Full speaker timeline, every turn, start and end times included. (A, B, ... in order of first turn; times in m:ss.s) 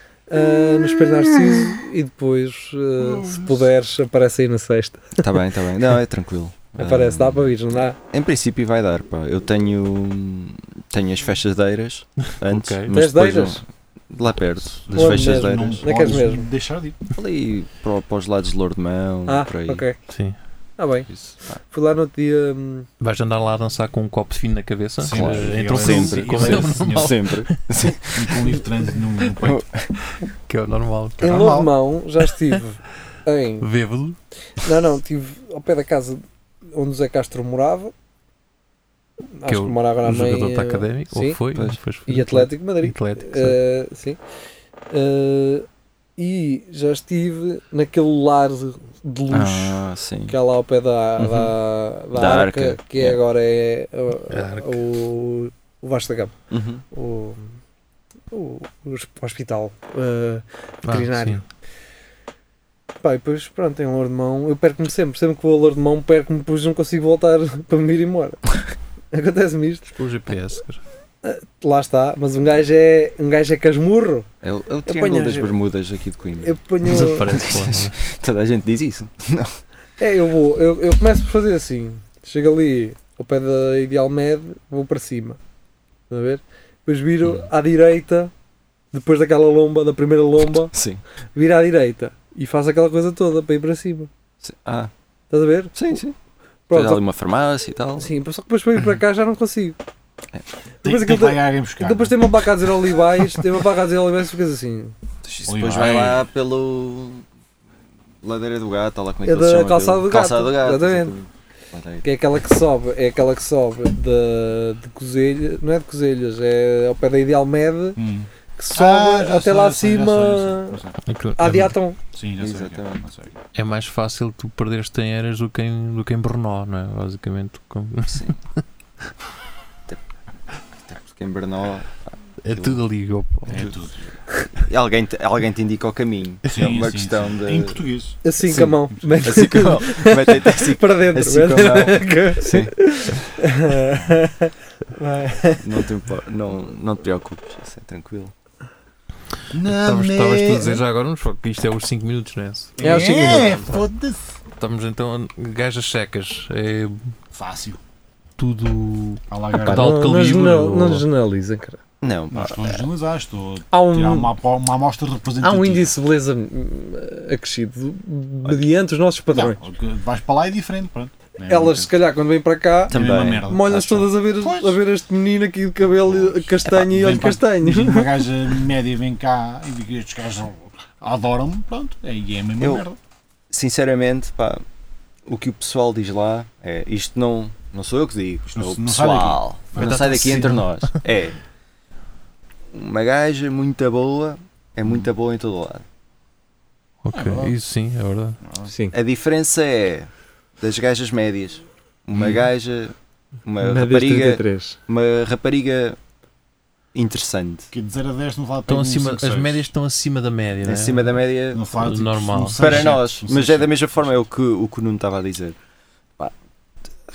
0:00.3-0:05.2 A
0:03.2-0:03.5 B
0:05.2-0:07.6 C
0:06.8-0:08.0 A
0:08.1-0:15.9 C
0:12.4-0:13.0 D
0:12.9-0:13.6 A
0:14.8-0:17.0 B
0:14.9-0:16.5 A
0:17.1-0:19.8 C
0:19.3-0:20.0 A
0:20.1-0:20.4 D
0:20.8-0:21.1 A
0:21.1-0:21.6 C
0:21.6-0:22.9 A
0:23.0-0:27.6 D
0:25.0-0:27.2 B
0:25.1-0:28.6 C
0:28.2-0:29.6 B
0:29.4-0:29.9 C
0:30.1-0:31.3 D
0:31.2-0:31.7 B
0:31.2-0:33.7 A
0:33.6-0:34.2 D
0:34.6-0:36.2 A
0:36.7-0:37.9 A
0:39.4-0:41.4 A
0:39.5-0:43.6 D
0:41.6-0:41.8 C
0:42.1-0:44.2 A
0:44.9-0:45.6 A
0:46.2-0:56.4 A
0:49.3-0:50.4 C
0:52.1-0:53.2 C
0:54.3-0:54.8 D
0:56.5-0:56.8 C
0:56.9-0:57.5 A
0:58.3-1:01.4 A
1:00.8-1:01.4 D
1:03.0-1:08.5 A
1:09.1-1:09.9 A
1:09.9-1:10.8 D
1:11.2-1:14.3 A
1:14.4-1:19.5 C
1:14.9-1:15.5 A
1:16.4-1:17.4 A
1:16.9-1:18.0 D
1:20.0-1:25.4 A
1:26.1-1:28.3 A
1:28.9-1:30.7 A
1:30.7-1:31.0 C
1:31.4-1:34.1 A
1:34.4-1:34.9 C
1:35.3-1:36.0 A
1:35.8-1:36.2 C
1:36.7-1:37.0 A
1:36.7-1:38.1 C
1:38.0-1:39.8 A
1:40.8-1:44.9 A
1:40.8-1:42.3 B
1:45.2-1:47.2 C
1:45.5-1:46.3 B
1:48.2-1:52.1 C
1:49.2-1:51.1 A
1:52.0-1:58.0 A
1:58.0-2:01.0 B
1:58.6-2:00.8 A
2:01.1-2:01.7 D
2:01.4-2:02.0 A
2:02.1-2:03.4 B
2:02.4-2:03.1 C
2:03.5-2:08.6 D
2:08.1-2:08.4 C
2:10.8-2:12.8 C
2:12.4-2:13.7 D
2:13.5-2:14.1 B
2:14.6-2:17.8 C
2:16.5-2:18.2 B
2:18.2-2:25.6 A
2:18.4-2:22.7 C
2:18.7-2:19.3 B
2:25.6-2:28.3 C
2:29.5-2:30.8 B
2:29.7-2:32.8 D
2:32.8-2:34.3 B
2:32.8-2:33.7 A
2:34.6-2:37.1 D
2:37.3-2:37.8 B
2:38.4-2:41.0 D
2:39.3-2:40.1 B
2:39.6-2:41.8 A
2:42.0-2:42.8 C
2:42.3-2:45.9 B
2:43.7-2:44.3 A
2:45.4-2:49.6 A
2:48.4-2:48.7 C
2:49.3-2:51.9 B
2:51.5-2:58.2 A
2:52.9-2:53.5 C
2:52.9-2:54.8 B
2:56.1-3:03.0 B
3:02.6-3:02.8 C
3:03.5-3:04.6 C
3:05.3-3:11.4 C
3:08.5-3:10.6 B
3:09.8-3:10.9 D
3:12.7-3:15.8 C
3:17.0-3:18.4 D
3:17.1-3:17.6 B
3:18.4-3:18.7 B
3:18.7-3:19.0 A
3:18.9-3:23.0 C
3:22.1-3:22.5 B
3:23.5-3:26.0 C
3:23.6-3:24.8 A
3:26.9-3:27.7 C
3:27.7-3:29.6 B
3:28.7-3:31.2 D
3:30.6-3:31.6 C
3:31.5-3:34.3 B
3:31.8-3:32.9 D
3:32.6-3:35.6 C